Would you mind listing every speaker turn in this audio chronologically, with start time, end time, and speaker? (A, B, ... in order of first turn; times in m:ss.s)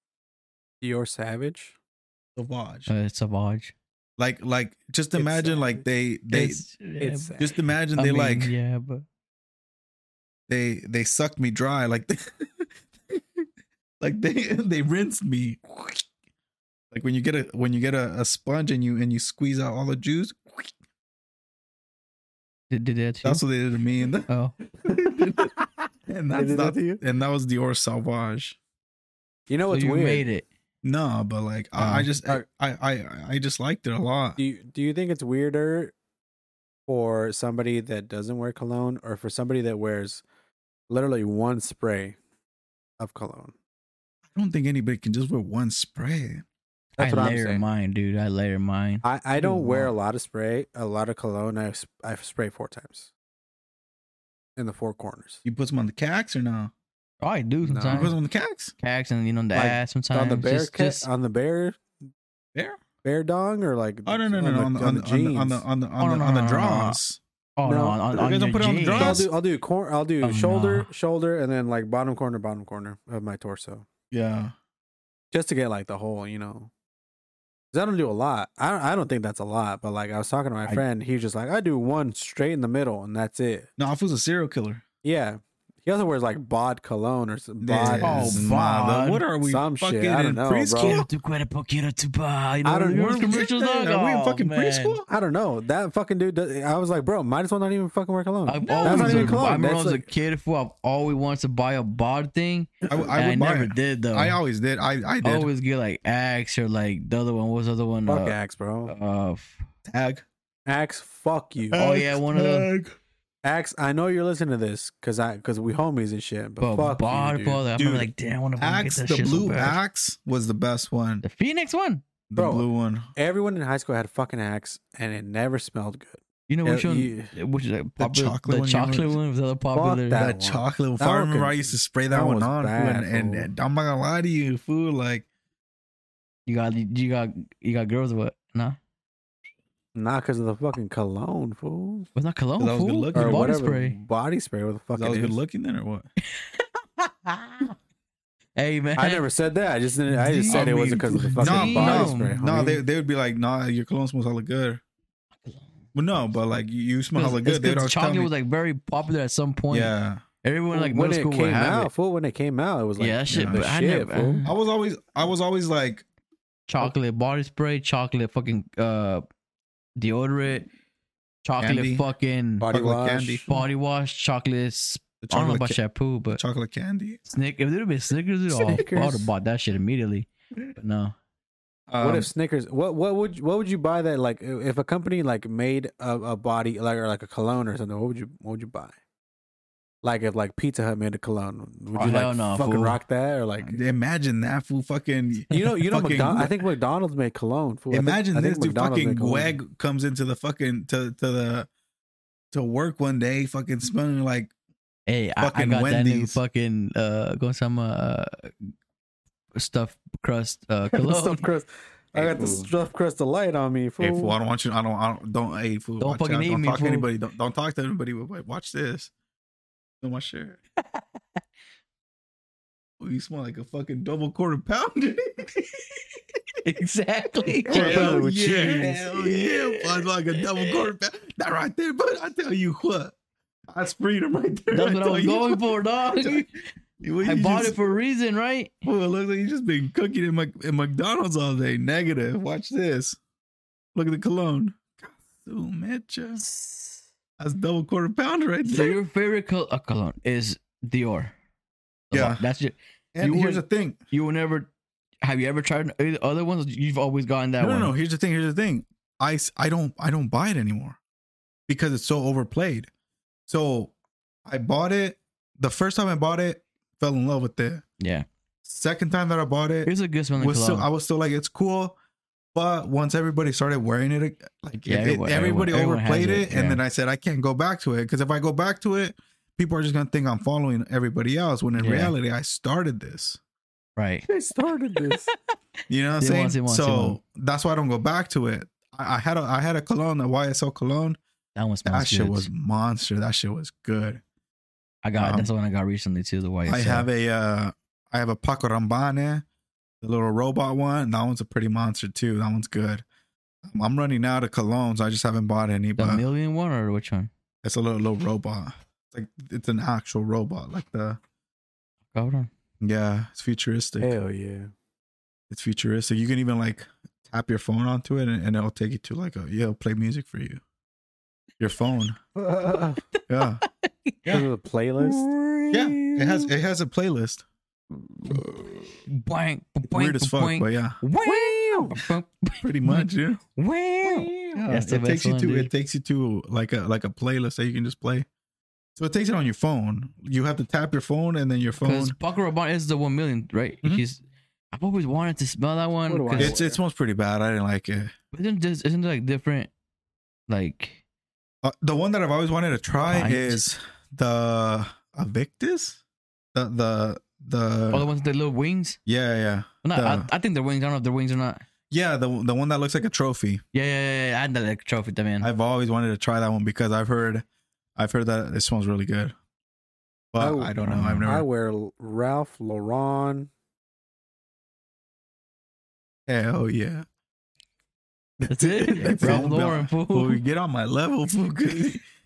0:00.8-0:01.7 A
0:02.4-0:02.9 B
0:02.9-0:03.7 C
0:04.2-0:06.6 B
0:05.2-0:05.6 C
0:06.3-0:09.0 C
0:07.0-0:07.5 A
0:07.4-0:08.5 B
0:10.5-0:13.4 B
0:14.0-0:15.8 B
0:16.9-0:20.7 B
0:22.7-0:23.4 C
0:23.2-0:24.3 B
0:24.3-0:24.5 C
0:24.8-0:25.5 B
0:26.1-0:28.6 B
0:26.3-0:27.0 A
0:29.5-0:30.2 A
0:29.7-0:30.4 C
0:30.8-0:34.4 B
0:31.8-0:32.1 C
0:34.4-0:35.9 A
0:36.9-0:40.2 A
0:40.9-0:42.2 A
0:43.0-0:43.5 A
0:44.3-0:46.4 B
0:47.0-0:47.6 A
0:47.0-0:49.8 C
0:49.0-0:53.1 A
0:49.4-0:49.8 B
0:54.6-0:55.4 A
0:55.4-0:56.7 B
0:57.2-0:58.2 C
0:57.6-0:58.1 A
0:57.9-0:58.7 B
0:58.8-1:01.1 C
0:59.5-1:01.8 A
1:02.5-1:02.8 B
1:03.0-1:05.6 A
1:04.0-1:07.2 B
1:06.0-1:07.0 C
1:07.6-1:09.3 C
1:07.6-1:08.0 A
1:08.1-1:09.3 B
1:08.9-1:13.9 A
1:10.2-1:10.9 C
1:14.1-1:14.5 B
1:15.3-1:16.7 A
1:17.7-1:23.7 A
1:23.8-1:24.8 B
1:25.0-1:28.4 A
1:27.6-1:31.1 B
1:28.0-1:29.2 C
1:29.4-1:31.0 A
1:30.8-1:35.0 C
1:32.6-1:33.4 A
1:32.9-1:35.0 B
1:35.1-1:40.0 A
1:38.5-1:44.4 C
1:38.6-1:39.5 B
1:42.9-1:45.5 B
1:45.2-1:48.4 C
1:48.1-1:48.9 A
1:48.9-1:49.6 C
1:49.8-1:50.2 B
1:50.6-1:51.8 A
1:51.7-1:52.9 B
1:51.8-1:52.7 C
1:53.4-1:57.6 A
1:56.6-1:59.8 C
1:57.7-2:01.2 B
2:01.2-2:02.0 C
2:02.3-2:03.1 B
2:02.4-2:02.6 A
2:03.2-2:07.3 A
2:06.5-2:10.3 C
2:08.0-2:09.2 B
2:09.7-2:13.5 A
2:10.2-2:15.2 B
2:16.4-2:18.8 C
2:19.9-2:22.1 A
2:22.1-2:24.0 C
2:22.6-2:23.5 B
2:23.1-2:25.4 A
2:24.9-2:26.1 B
2:26.3-2:27.7 C
2:28.6-2:29.2 C
2:29.0-2:32.8 A
2:30.1-2:34.8 B
2:30.5-2:32.4 C
2:35.9-2:38.3 B
2:37.1-2:41.9 C
2:39.7-2:40.2 B
2:40.7-2:44.4 A
2:43.0-2:44.5 C
2:43.3-2:43.6 B
2:44.4-2:46.0 B
2:46.7-2:49.2 C
2:50.0-2:50.7 C
2:51.4-2:52.7 C
2:51.6-2:52.0 B
2:52.6-2:53.6 A
2:52.7-2:53.4 B
2:53.5-2:56.4 C
2:55.2-2:55.8 B
2:56.3-2:57.2 B
2:57.3-3:01.1 C
2:58.5-2:59.3 A
3:01.9-3:02.3 B
3:02.0-3:09.0 A
3:10.0-3:13.8 A
3:11.9-3:13.0 C
3:13.6-3:16.6 B
3:15.5-3:19.6 A
3:17.9-3:21.7 B
3:22.5-3:24.5 B
3:25.1-3:28.7 C
3:25.4-3:26.4 B
3:29.5-3:31.5 C
3:30.9-3:34.3 A
3:32.1-3:32.7 B
3:34.0-3:39.1 B
3:36.0-3:37.1 C
3:40.0-3:40.6 B
3:43.0-3:45.8 B
3:46.6-3:50.8 C
3:47.6-3:53.1 B
3:47.7-3:48.9 A
3:53.7-3:56.4 B
3:54.7-3:56.5 C
3:57.0-3:57.8 B
3:57.2-3:58.8 C
3:58.8-4:03.2 B
4:03.9-4:06.4 B
4:06.4-4:07.0 C
4:07.4-4:09.0 B
4:08.6-4:11.3 C
4:12.1-4:14.7 C
4:12.1-4:12.4 B
4:13.1-4:14.0 B
4:15.2-4:17.9 C
4:17.6-4:21.0 B
4:21.7-4:22.9 B
4:23.5-4:23.9 B
4:24.5-4:27.8 B
4:28.0-4:28.2 C
4:28.6-4:32.0 B
4:29.8-4:30.9 C
4:32.5-4:43.4 B
4:34.9-4:36.8 C
4:41.7-4:42.1 C
4:44.0-4:44.3 C
4:44.3-4:45.3 A
4:45.9-4:51.2 B
4:46.2-4:47.2 C
4:51.5-4:52.5 C
4:51.8-4:54.2 B
4:55.0-4:57.1 C
4:55.2-4:55.5 B
4:56.6-4:59.4 B
5:00.0-5:03.0 B
5:03.6-5:06.2 B
5:06.0-5:07.3 C
5:07.6-5:11.2 B
5:12.1-5:12.5 C
5:12.8-5:14.1 B
5:14.0-5:14.7 A
5:15.5-5:20.6 B
5:21.6-5:22.2 B
5:22.3-5:23.0 A
5:23.2-5:24.4 C
5:23.3-5:23.6 B
5:24.3-5:25.2 A
5:25.0-5:26.5 C
5:25.7-5:27.4 B
5:28.3-5:28.6 A
5:29.1-5:35.7 C
5:29.8-5:31.0 B
5:31.2-5:32.0 A
5:32.6-5:33.4 B
5:34.0-5:34.3 A
5:34.5-5:38.2 B
5:39.0-5:42.2 B
5:41.8-5:44.2 C
5:44.7-5:46.5 C
5:46.1-5:46.8 A
5:46.4-5:48.1 B
5:48.3-5:49.7 C
5:50.5-5:51.0 C
5:51.6-5:56.0 B
5:53.1-5:53.6 C
5:56.5-5:58.1 B
5:57.9-5:59.0 C
5:59.0-6:00.3 B
5:59.8-6:01.6 C
6:01.9-6:03.6 B
6:03.7-6:05.5 C
6:05.4-6:07.4 B
6:08.0-6:09.3 B
6:10.3-6:11.4 B
6:10.4-6:13.5 A
6:10.8-6:11.3 C
6:16.3-6:17.0 B
6:18.5-6:20.4 C
6:18.7-6:19.5 A
6:19.0-6:22.0 B